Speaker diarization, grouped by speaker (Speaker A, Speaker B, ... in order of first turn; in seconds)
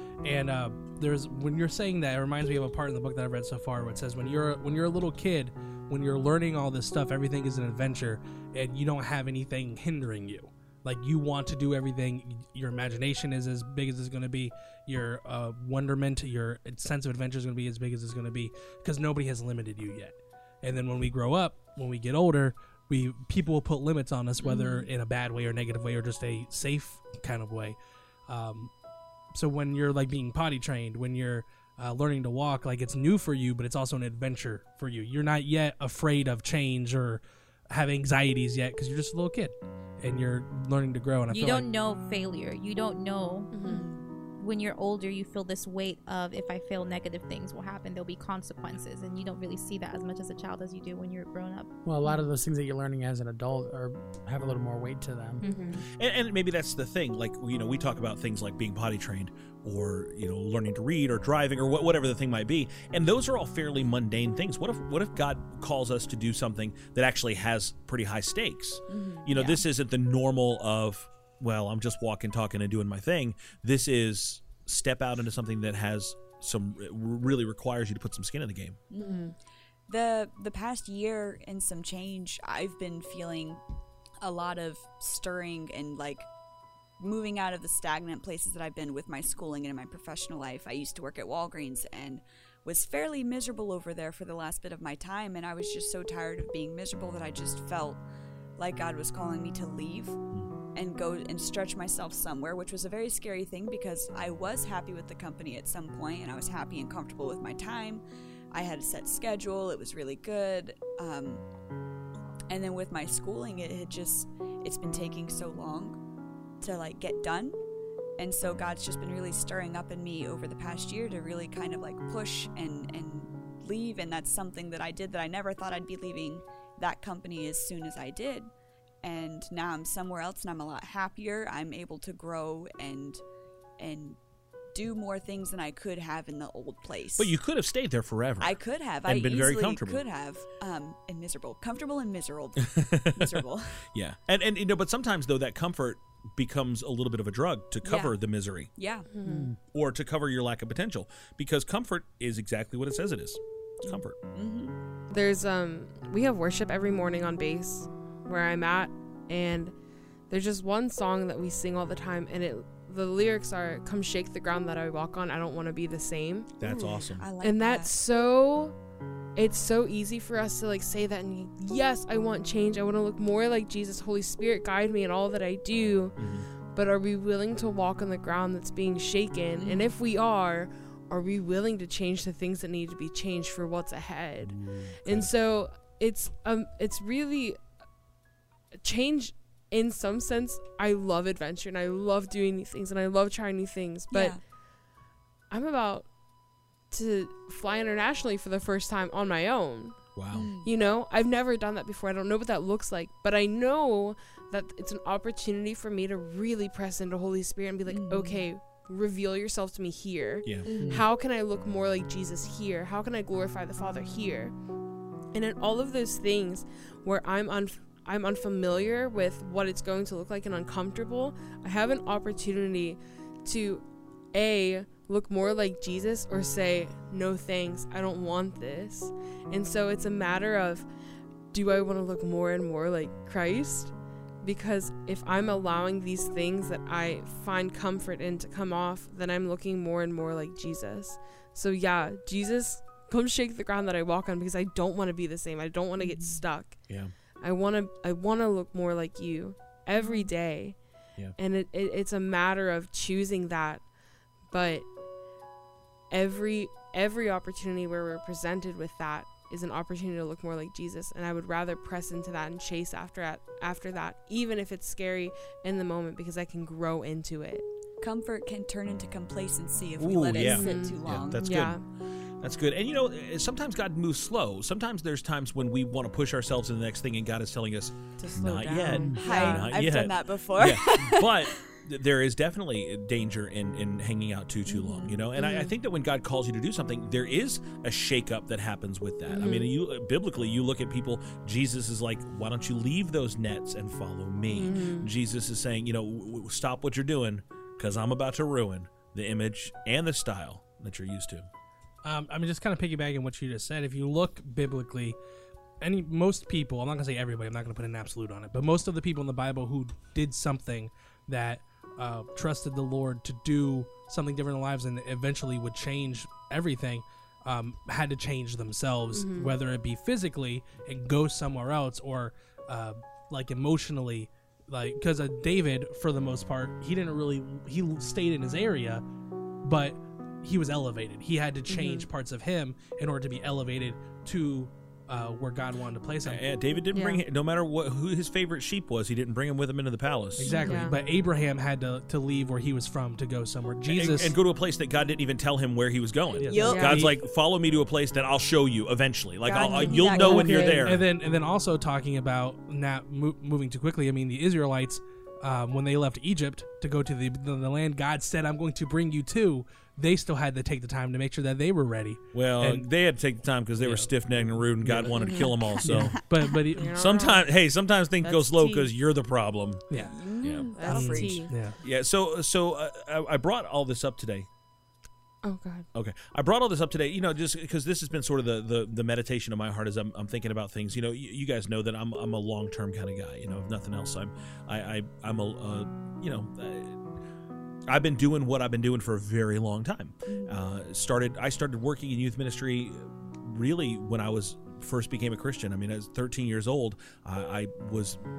Speaker A: 0.2-27.8, 28.3-28.7, 29.3-41.7, 302.0-305.1, 305.8-329.0, 329.6-336.4, 340.4-344.4, 346.4-347.1, 350.1-362.9, 363.8-365.2, 365.8-367.0, 370.8-371.8
Speaker B: 24.4-24.9, 43.6-44.1, 68.9-69.6, 78.9-79.3, 79.9-83.6, 84.2-86.3, 87.0-98.0, 98.6-100.2, 100.7-111.4, 112.5-116.0, 116.6-117.6, 118.2-128.5, 129.0-133.2, 133.8-134.2, 134.7-137.3, 138.4-143.8, 147.8-148.1, 148.8-149.1, 153.8-154.8, 166.6-167.9, 179.6-179.9, 194.1-194.4, 200.3-200.7, 207.8-208.4, 210.6-211.1, 246.0-246.4, 249.9-250.3, 268.0-271.4, 279.2-281.6, 284.7-285.3, 340.5-340.8, 346.5-347.0, 349.4-351.0, 365.3-366.4, 369.9-371.5, 390.3-390.6
Speaker C: 41.3-43.5, 44.4-51.7, 55.4-55.7
Speaker D: 43.5-43.9, 55.4-55.9, 79.0-79.3, 149.1-149.5, 155.1-159.7, 160.3-166.5, 167.4-168.7, 169.3-176.1, 176.7-187.6, 188.8-194.4, 195.5-196.1, 196.9-200.0, 200.6-214.6, 215.3-230.9, 231.5-246.8, 247.4-250.8, 251.3-253.8, 254.5-254.9, 256.1-267.6, 270.3-271.8, 278.2-279.8, 285.4-285.7, 289.3-289.7, 294.5-295.1, 319.1-319.5, 331.7-332.1, 336.9-337.2, 340.5-341.0, 346.6-347.0, 349.5-350.8, 365.2-365.5, 366.7-367.5, 368.2-368.9, 370.7-371.5, 375.4-375.9
Speaker E: 51.9-55.4, 149.2-149.6, 210.8-211.1
Speaker F: 55.9-78.8, 137.2-140.0, 142.7-148.7, 149.7-154.2, 166.6-167.3, 176.2-176.5, 184.4-185.3, 200.1-200.5, 270.0-271.8, 272.4-301.5, 336.2-340.5, 343.9-351.1, 362.3-366.2, 366.9-369.9, 370.4-370.7, 371.8-374.5, 375.9-387.0, 387.9-398.2